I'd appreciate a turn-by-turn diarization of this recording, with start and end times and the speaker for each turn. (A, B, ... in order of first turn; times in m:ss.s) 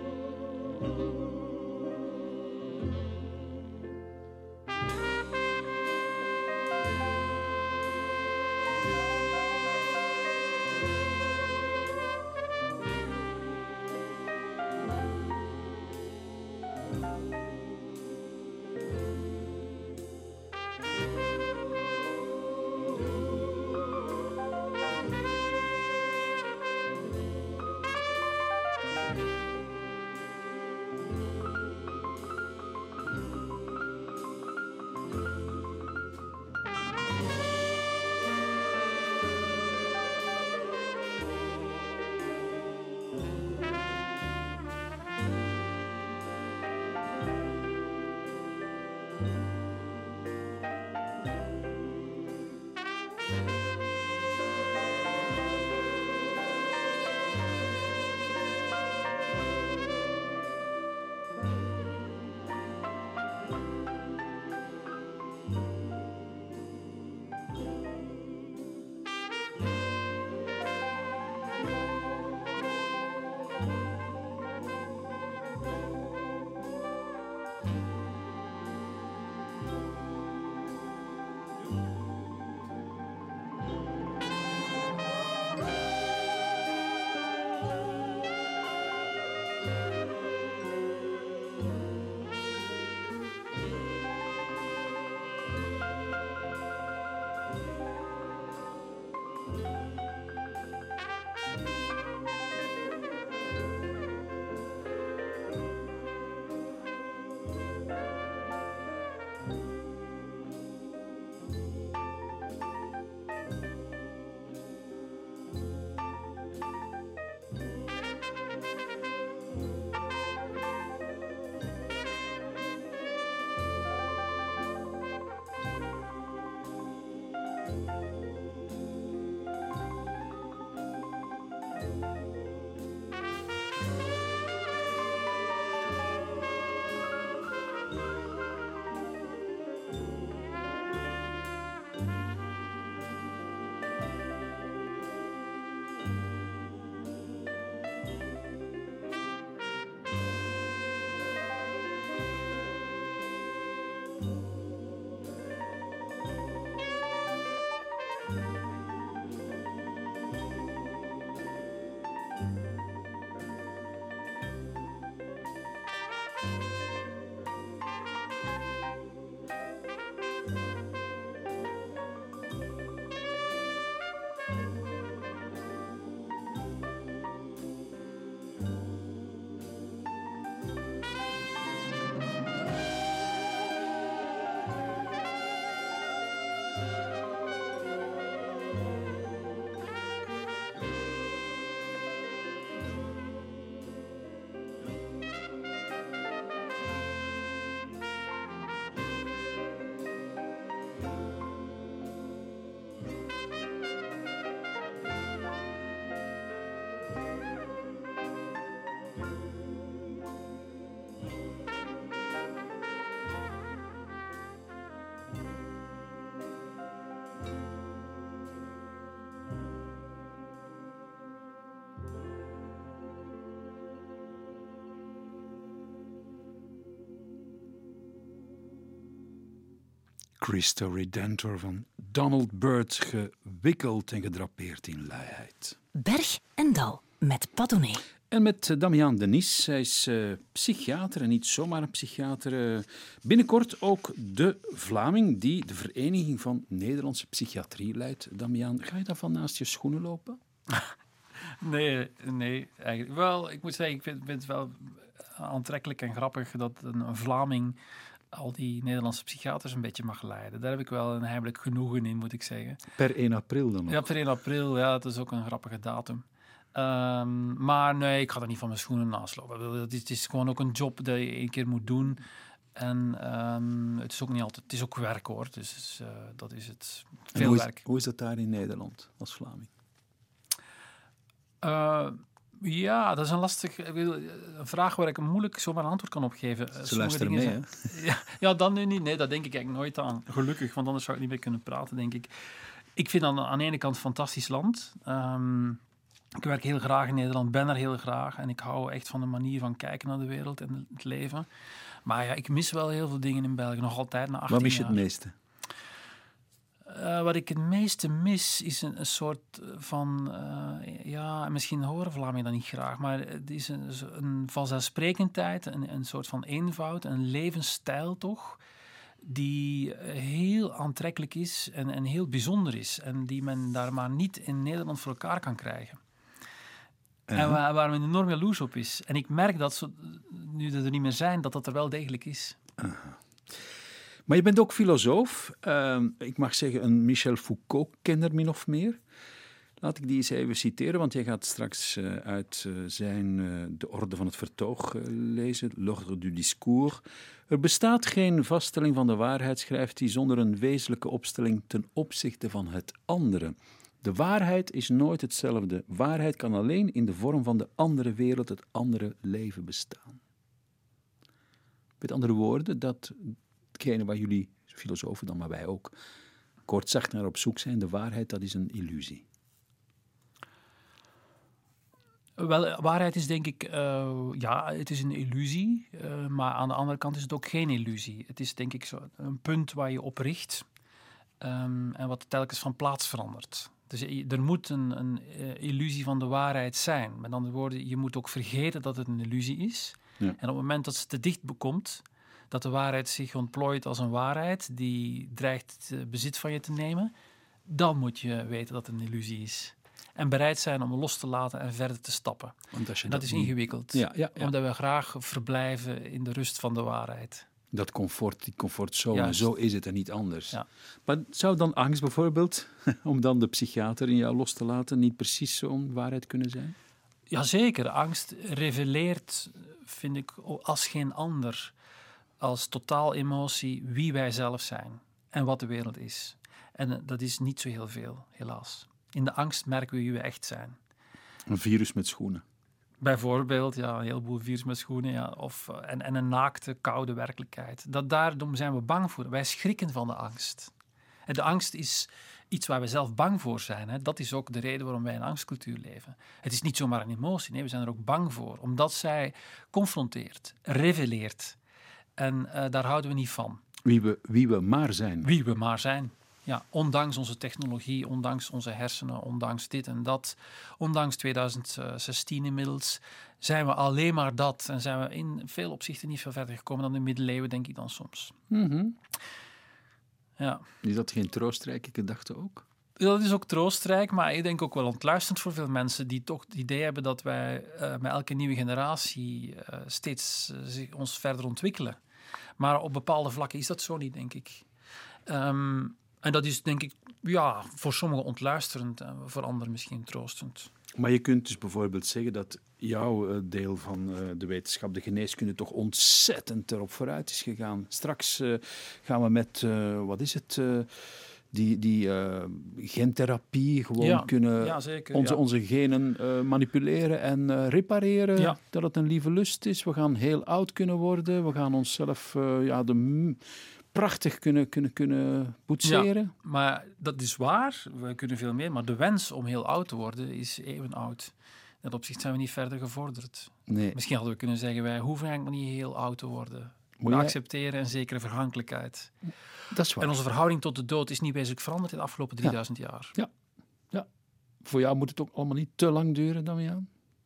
3:50.4-3:55.8 A
3:56.0-3:58.0 B
3:58.3-4:10.4 A
4:11.6-4:17.8 C
4:18.3-4:22.8 C
4:23.0-4:24.1 A
4:23.9-4:32.2 C
4:32.8-4:37.8 C
4:37.3-4:39.7 A
4:41.6-4:52.3 C
4:46.8-4:47.9 A
4:53.0-4:55.8 C
4:56.4-5:01.5 C
5:02.1-5:05.0 C
5:04.5-5:05.4 A
5:06.9-5:18.6 C
5:19.2-5:26.0 C
5:27.3-5:27.6 A
5:27.3-5:32.6 C
5:32.8-5:33.2 A
5:34.3-5:39.0 A
5:39.8-6:00.2 A
6:02.0-6:06.0 A
6:06.7-6:09.2 A
6:12.4-6:20.6 C
6:21.4-6:37.1 C
6:37.7-6:47.5 C
6:42.7-6:44.5 A
6:47.7-6:56.8 A
6:49.1-6:49.5 C
6:57.3-7:01.7 C
7:02.4-7:10.8 C
7:11.5-7:12.4 A
7:13.0-7:20.7 C
7:21.3-7:31.6 C
7:32.2-7:33.6 C
7:33.8-7:35.3 A
7:35.2-7:48.4 C
7:48.5-7:49.0 A
7:50.4-7:50.7 C
7:50.8-7:52.7 A
7:53.0-8:02.0 C
8:02.6-8:04.7 C
8:05.3-8:10.7 C
8:11.0-8:36.3 A
8:24.0-8:25.4 C
8:35.8-8:49.1 C
8:43.7-8:44.0 A
8:47.0-8:47.4 A
8:49.7-8:50.2 A
8:50.0-8:53.2 C
8:54.6-8:56.9 A